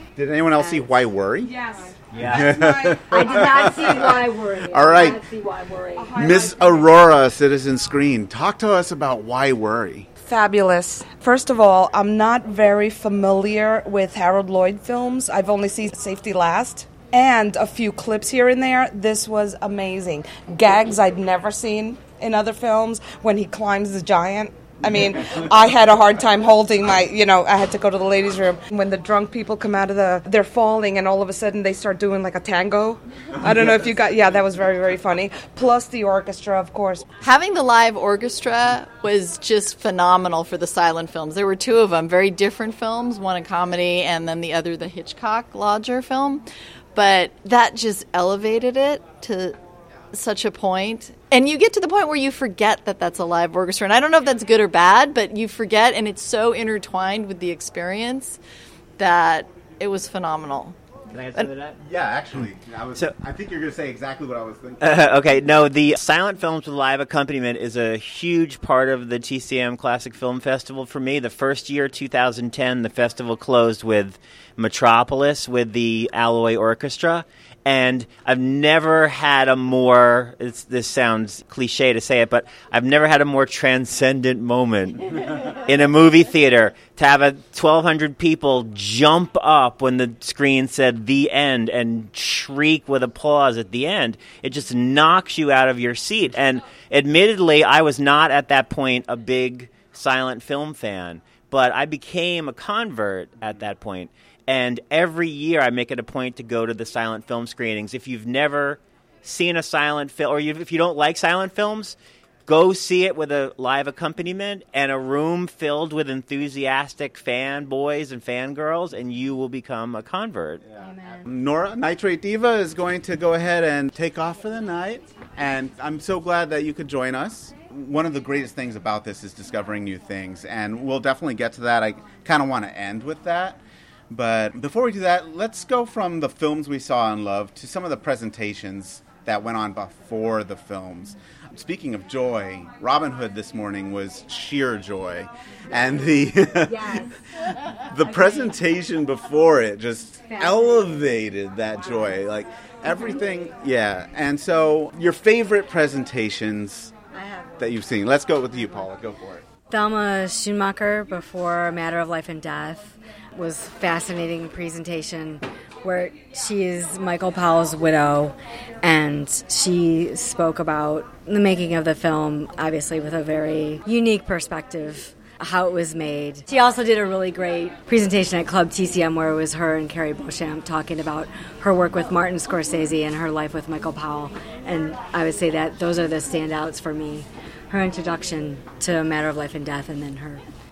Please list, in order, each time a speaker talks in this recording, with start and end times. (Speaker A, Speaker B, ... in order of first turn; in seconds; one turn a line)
Speaker A: 0.1-1.6
Speaker B: 0.6-0.9
Speaker C: 1.4-3.4
Speaker D: 2.1-2.8
Speaker A: 2.2-5.2
Speaker B: 3.0-6.2
Speaker C: 6.0-7.0
Speaker A: 6.1-10.1
Speaker C: 10.2-37.1
Speaker E: 37.2-49.6
Speaker E: 50.1-58.4
Speaker E: 59.0-60.8
Speaker D: 61.1-61.8
Speaker A: 61.8-65.0
Speaker D: 64.8-120.6
Speaker A: 120.8-133.6
Speaker B: 120.8-121.2
Speaker A: 134.1-147.1
Speaker B: 146.6-147.1
Speaker A: 147.8-157.0
Speaker B: 150.3-150.7
Speaker B: 157.2-157.6
Speaker A: 157.6-159.5
Speaker B: 159.7-190.4